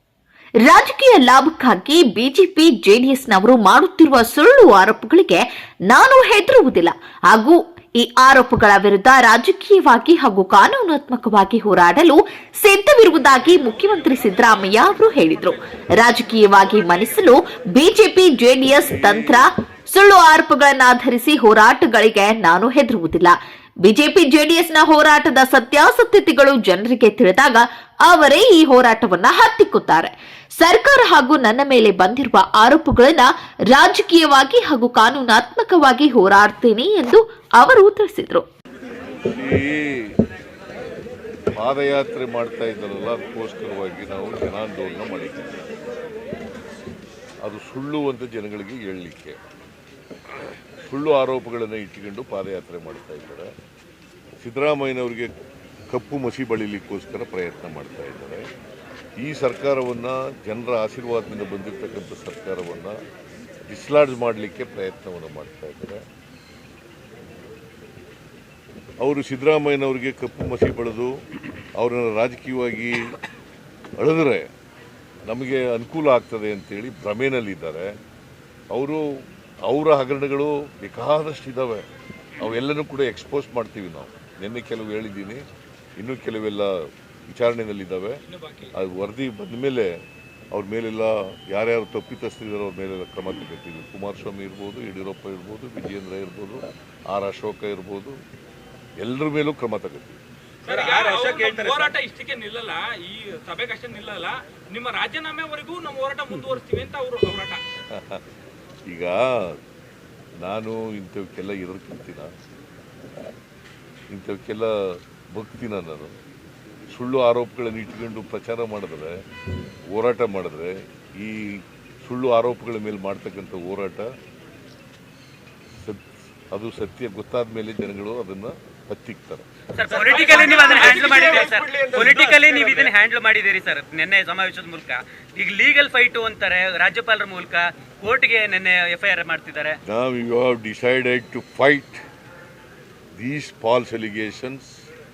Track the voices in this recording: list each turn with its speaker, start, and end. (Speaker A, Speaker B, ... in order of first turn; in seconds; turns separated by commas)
Speaker A: 0.7-38.4, Speaker B: 18.8-19.4, Speaker B: 39.2-40.1, Speaker B: 41.5-45.7, Speaker B: 47.4-49.4, Speaker B: 50.8-53.5, Speaker B: 54.4-55.3, Speaker B: 55.9-58.5, Speaker B: 59.2-62.9, Speaker B: 63.7-66.0, Speaker B: 69.0-71.1, Speaker B: 71.8-73.1, Speaker B: 74.0-74.5, Speaker B: 75.3-77.9, Speaker B: 78.7-79.0, Speaker B: 79.7-81.8, Speaker B: 82.4-85.4, Speaker B: 86.0-88.2, Speaker C: 88.2-88.7, Speaker B: 88.7-89.9, Speaker B: 90.5-98.2, Speaker B: 99.0-100.2, Speaker C: 100.6-107.6, Speaker D: 100.7-101.9, Speaker B: 107.9-108.2, Speaker B: 108.9-109.5, Speaker B: 110.4-112.3, Speaker B: 114.1-116.1, Speaker B: 116.9-119.2, Speaker B: 119.9-124.1, Speaker B: 125.8-129.4, Speaker D: 129.7-139.8, Speaker C: 129.9-132.9, Speaker B: 139.8-142.0, Speaker B: 143.2-144.8